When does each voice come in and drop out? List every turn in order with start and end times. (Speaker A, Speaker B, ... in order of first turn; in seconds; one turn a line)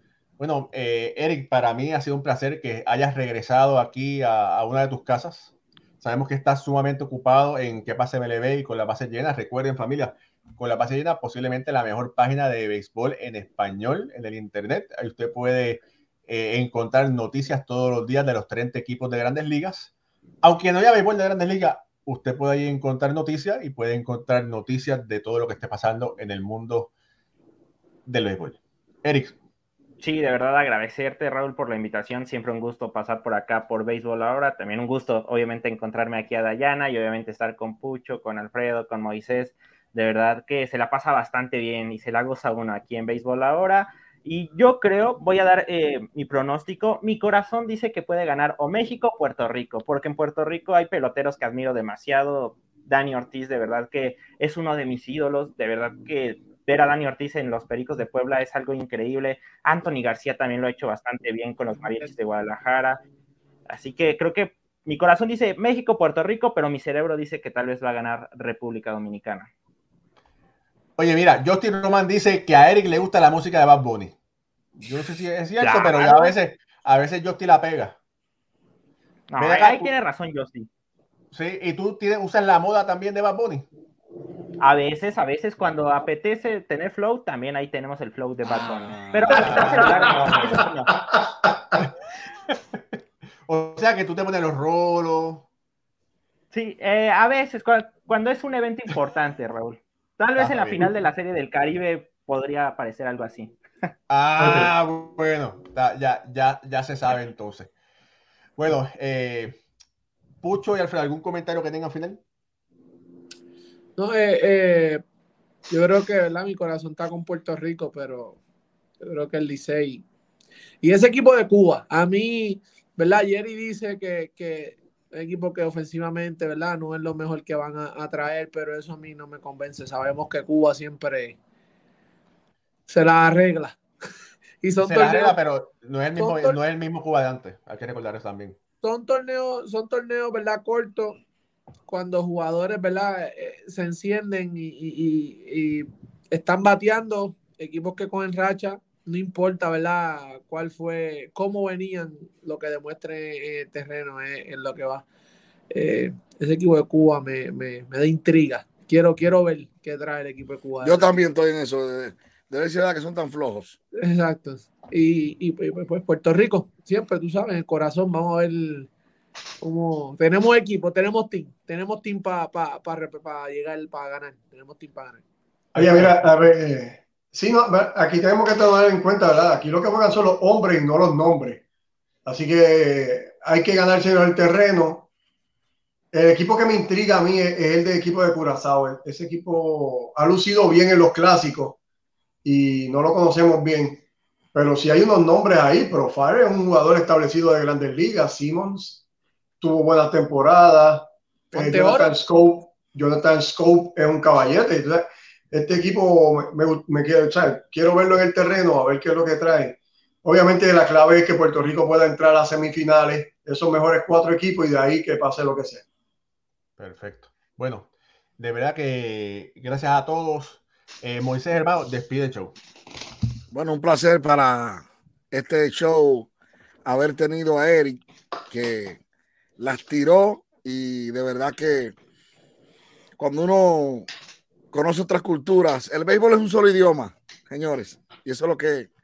Speaker A: 0.4-19.9
Speaker A: 20.4-26.9
Speaker A: 28.1-29.4
Speaker B: 30.0-63.0
Speaker B: 63.7-69.5
Speaker A: 71.0-74.2
Speaker A: 74.8-78.0
Speaker B: 75.6-76.3
Speaker B: 79.3-80.7
Speaker A: 79.4-79.9
Speaker A: 81.3-83.7
Speaker B: 84.6-90.9
Speaker C: 88.6-89.5
Speaker A: 89.3-90.6
Speaker D: 89.3-91.8
Speaker A: 93.5-95.5
Speaker B: 96.5-103.5
Speaker A: 100.4-100.9
Speaker A: 104.1-107.7
Speaker D: 104.4-104.7
Speaker A: 108.6-109.6
Speaker A: 110.4-112.2
Speaker E: 114.0-115.0
Speaker E: 115.7-118.4
Speaker E: 119.0-120.0
Speaker E: 120.8-131.4
Speaker E: 132.9-133.8
Speaker E: 134.6-135.4
Speaker A: 134.8-138.6
Speaker E: 136.2-136.6
Speaker E: 138.8-141.2
Speaker E: 141.9-155.1
Speaker E: 155.7-161.1
Speaker C: 160.8-163.8
Speaker E: 164.0-168.9
Speaker E: 169.6-175.2
Speaker A: 175.7-176.3
Speaker D: 175.8-181.6
Speaker D: 182.3-185.1
Speaker D: 186.1-191.8
Speaker D: 192.4-194.0
Speaker D: 194.5-199.0
Speaker D: 199.6-215.8
Speaker E: 201.5-202.1
Speaker A: 216.8-222.6
Speaker C: 223.5-226.3
Speaker C: 226.8-229.0
Speaker C: 229.6-231.9
Speaker C: 233.2-234.1
Speaker C: 234.7-238.9